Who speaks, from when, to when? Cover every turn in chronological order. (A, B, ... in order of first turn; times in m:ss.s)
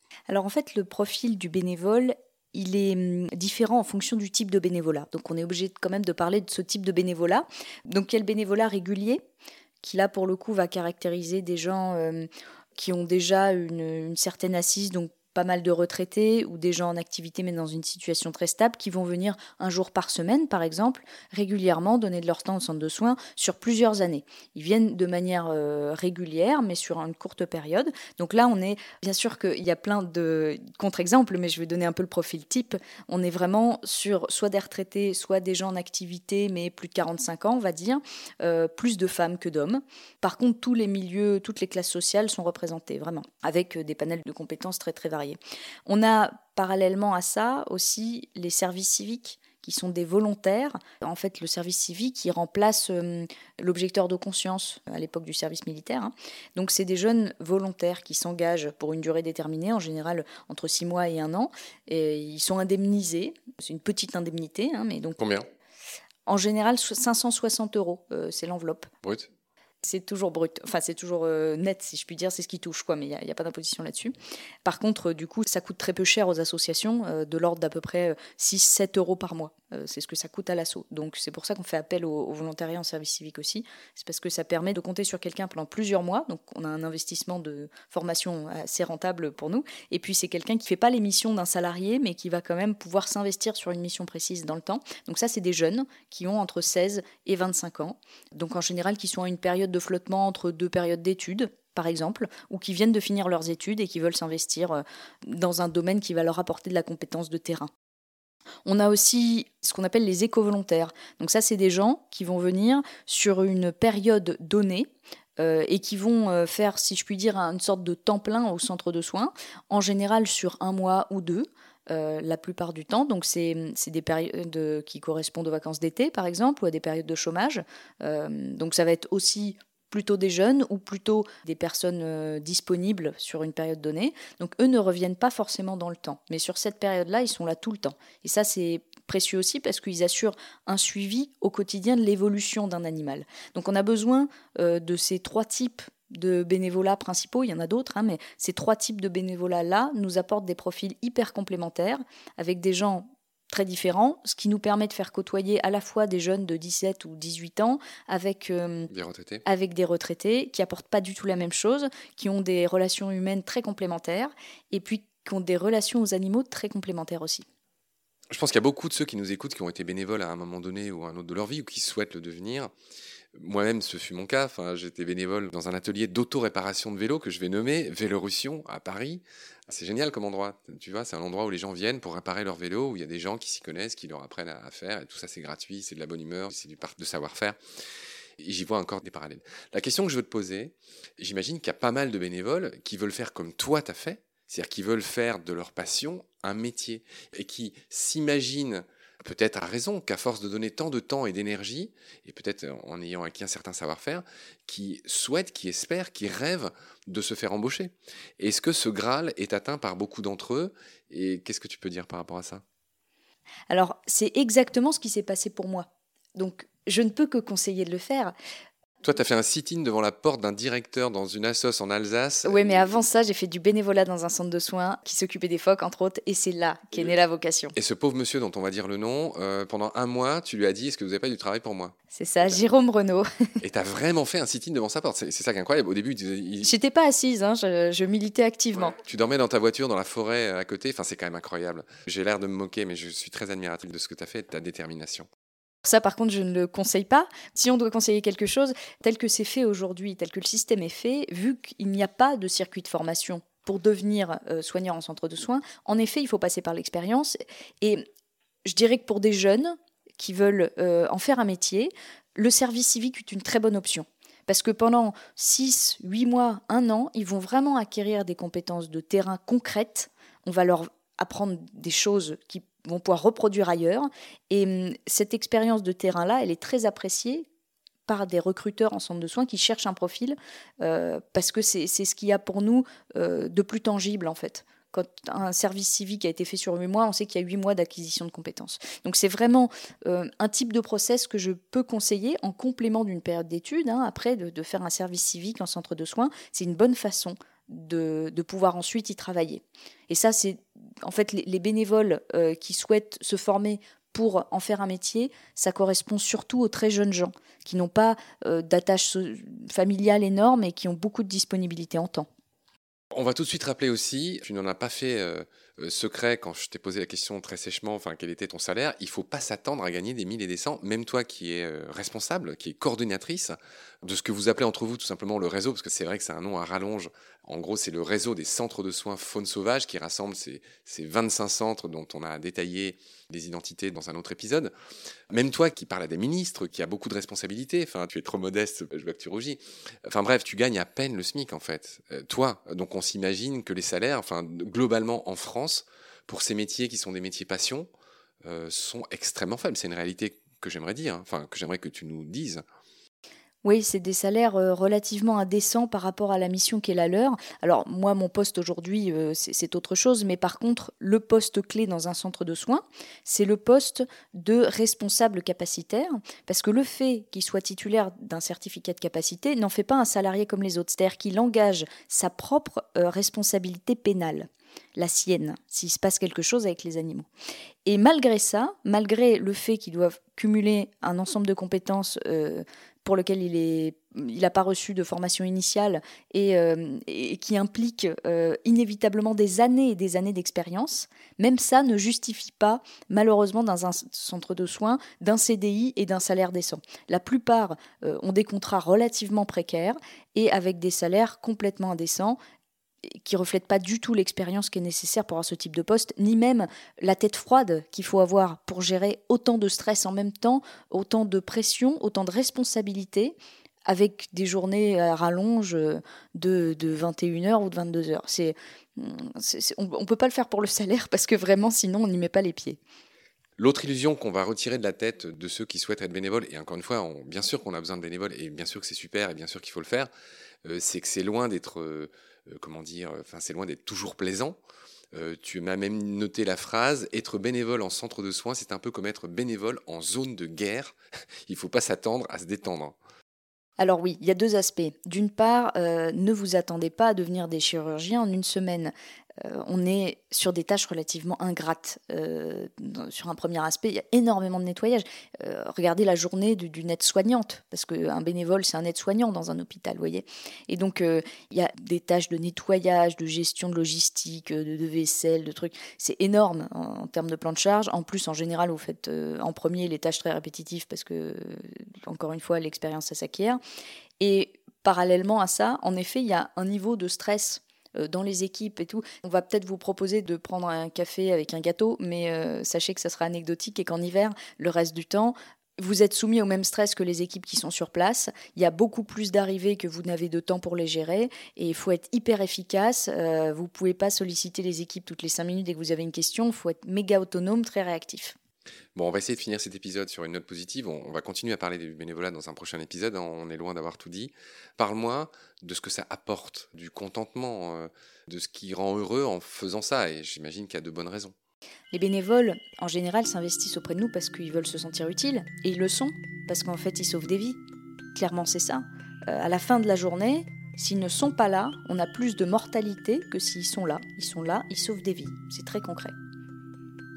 0:00.3-0:09.2 A
0:09.8-1:05.2 A
1:05.2-1:05.5 B
1:06.3-1:08.9 A
1:09.0-1:09.3 B
1:09.8-1:14.1 A
1:14.6-1:47.7 A
1:48.7-2:38.9 A
2:38.9-2:39.4 B
2:39.4-2:47.5 A
2:48.3-2:52.7 B
2:53.4-3:07.6 B
3:08.4-3:32.6 B
3:33.7-3:38.3 A
3:39.0-3:42.6 B
3:42.4-3:47.8 A
3:47.8-3:51.9 B
3:52.1-3:53.3 A
3:53.6-3:56.7 B
3:56.6-3:59.0 A
3:59.0-4:05.3 B
4:05.8-4:18.0 A
4:18.7-4:37.5 A
4:38.1-5:12.3 A
5:13.1-5:34.7 B
5:35.3-5:47.9 B
5:48.4-5:52.6 B
5:53.6-6:17.3 A
6:17.9-6:42.4 A
6:43.1-6:53.4 A
6:53.9-7:02.8 A
7:03.6-7:10.1 B
7:10.6-7:14.6 B
7:15.1-7:23.0 B
7:23.8-7:53.6 A
7:54.2-8:18.4 A
8:19.0-8:31.3 B
8:31.9-8:37.6 A
8:38.1-8:46.2 A